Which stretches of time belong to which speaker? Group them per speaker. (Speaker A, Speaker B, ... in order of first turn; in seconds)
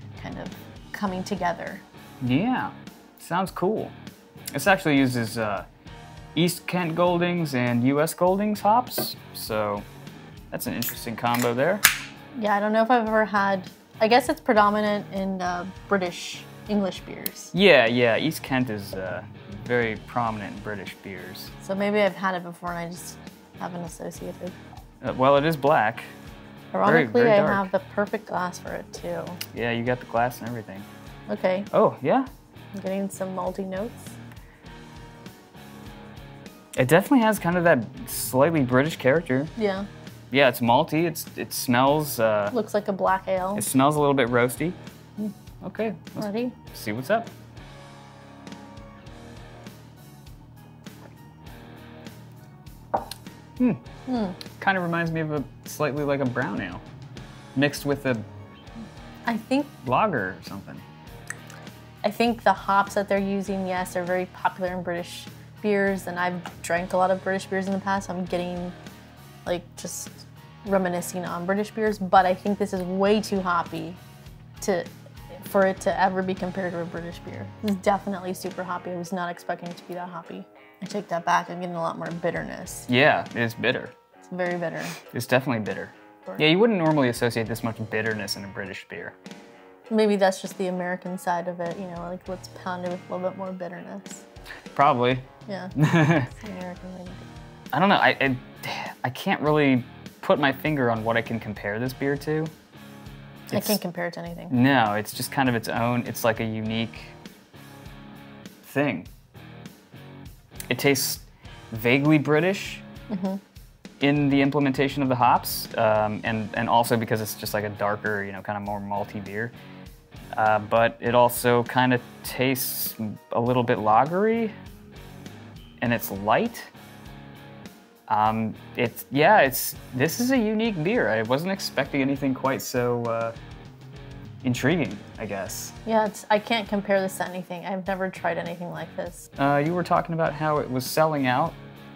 Speaker A: 0.2-1.8, 12.3-17.5, 21.6-24.6, 26.7-29.4, 31.3-31.7, 32.8-34.2, 39.6-39.9, 42.5-43.7, 46.2-46.6, 54.1-54.4, 59.3-59.7, 62.0-68.8, 69.5-74.0, 74.6-82.9, 84.2-85.0, 89.9-94.2, 95.5-97.3, 103.5-104.5, 113.1-113.4, 135.9-139.3
Speaker B: 2.2-4.0, 4.5-5.7, 6.3-9.8, 10.5-11.8, 17.5-21.5, 25.0-26.1, 26.9-27.7, 29.5-30.9, 31.7-32.3, 36.8-39.5, 40.3-42.5, 43.6-44.8, 45.6-47.3, 54.5-56.8, 57.5-58.2, 59.8-60.9, 82.9-83.9, 85.1-89.2, 94.7-95.3, 95.8-96.3, 97.7-102.5, 103.5-103.8, 104.5-107.2, 108.6-109.1, 110.7-112.8, 114.0-119.5, 120.3-124.5, 125.8-126.7, 128.1-133.3, 134.4-135.8, 139.4-141.6